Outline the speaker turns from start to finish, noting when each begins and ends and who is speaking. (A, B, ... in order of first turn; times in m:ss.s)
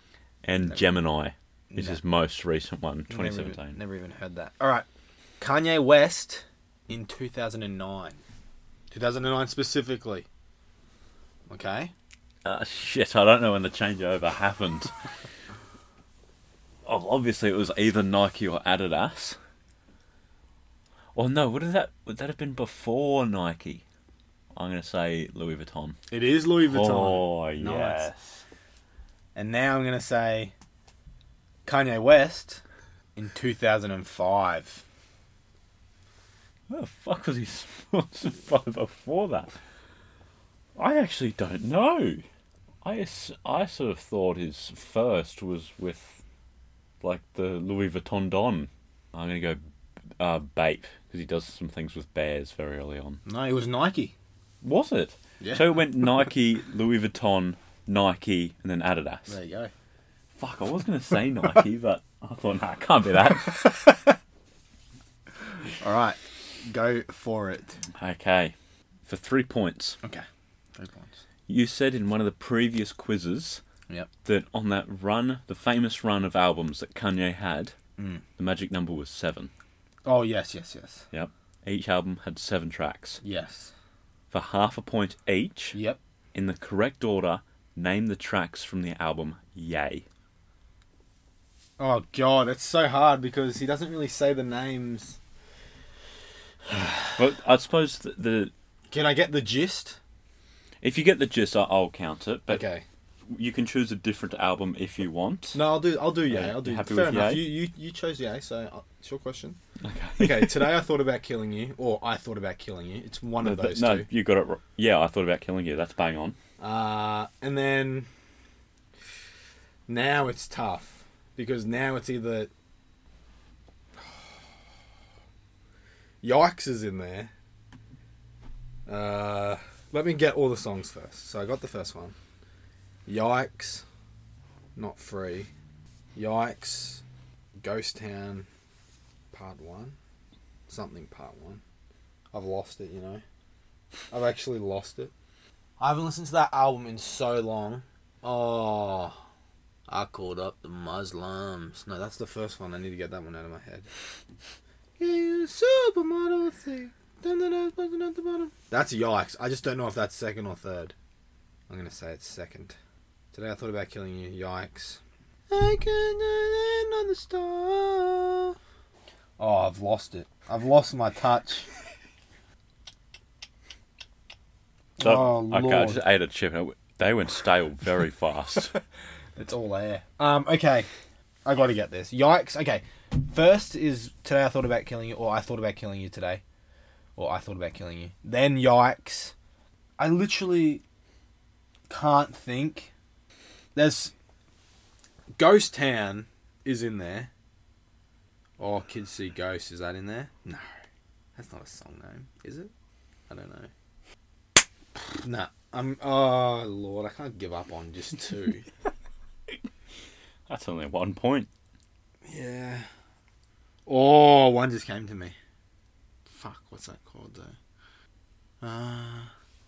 0:00.4-0:03.8 A
0:01.7-0:02.0 B
0:03.1-0:04.9 B
0:05.4-0:08.2 B
0:08.9-0:10.3 B
0:11.5-0:11.9 B
0:12.4-0:15.0 A
0:16.9-0:19.4 A
0:21.2-0:23.8 A
0:24.5-0:26.0 A
0:26.1-0:28.1 B
0:26.6-0:28.4 A
0:29.4-0:30.5 B
0:31.7-0:32.6 B
0:33.2-0:34.8 B
0:36.7-0:39.6 A
0:40.8-0:42.2 A
0:42.8-0:46.2 A
0:47.0-0:49.6 A
0:50.2-0:53.2 A
0:53.2-0:54.2 B
0:54.6-0:59.4 A
0:55.4-0:55.8 B
0:59.3-0:59.7 B
1:00.4-1:03.8 A
1:05.8-1:07.8 B
1:08.0-1:08.6 A
1:09.1-1:10.0 A
1:10.0-1:11.2 B
1:11.5-1:13.6 A
1:14.2-1:17.8 A
1:18.0-1:18.2 B
1:18.4-1:19.5 A
1:20.1-1:21.1 B
1:21.1-1:23.2 A
1:23.2-1:23.7 B
1:24.3-1:25.8 A
1:25.7-1:26.0 B
1:26.3-1:30.0 A
1:31.8-1:35.2 B
1:37.2-1:38.5 A
1:38.9-1:40.0 B
1:40.8-1:42.6 A
1:42.5-1:42.8 B
1:43.3-1:45.6 A
1:45.5-1:49.6 B
1:46.3-1:47.5 A
1:49.8-1:50.8 A
1:50.2-1:54.1 B
1:53.4-1:56.4 A
1:56.6-1:58.1 B
1:59.9-2:02.5 B
2:06.2-2:07.3 B
2:08.9-2:12.2 B
2:13.1-2:13.8 B
2:14.8-2:15.5 B
2:16.2-2:17.0 B
2:17.6-2:18.5 B
2:19.3-2:20.0 B
2:20.7-2:21.6 B
2:22.3-2:23.2 B
2:24.1-2:25.1 B
2:25.8-2:29.2 B
2:29.9-2:33.9 B
2:35.0-2:41.0 B
2:41.7-2:42.8 B
2:43.3-2:48.6 B
2:49.4-2:51.7 B
2:55.0-2:56.0 B
2:55.0-2:58.7 A
2:59.4-3:00.9 B
3:01.4-3:06.4 B
3:07.2-3:09.4 B
3:10.0-3:10.8 B
3:11.9-3:12.9 B
3:13.8-3:14.1 B
3:15.4-3:17.3 B
3:18.6-3:20.7 B
3:21.4-3:22.7 B
3:23.3-3:23.7 B
3:25.1-3:28.7 B
3:30.5-3:31.5 A
3:32.3-3:32.9 B
3:33.9-3:35.4 B
3:36.3-3:37.6 B
3:38.6-3:39.3 B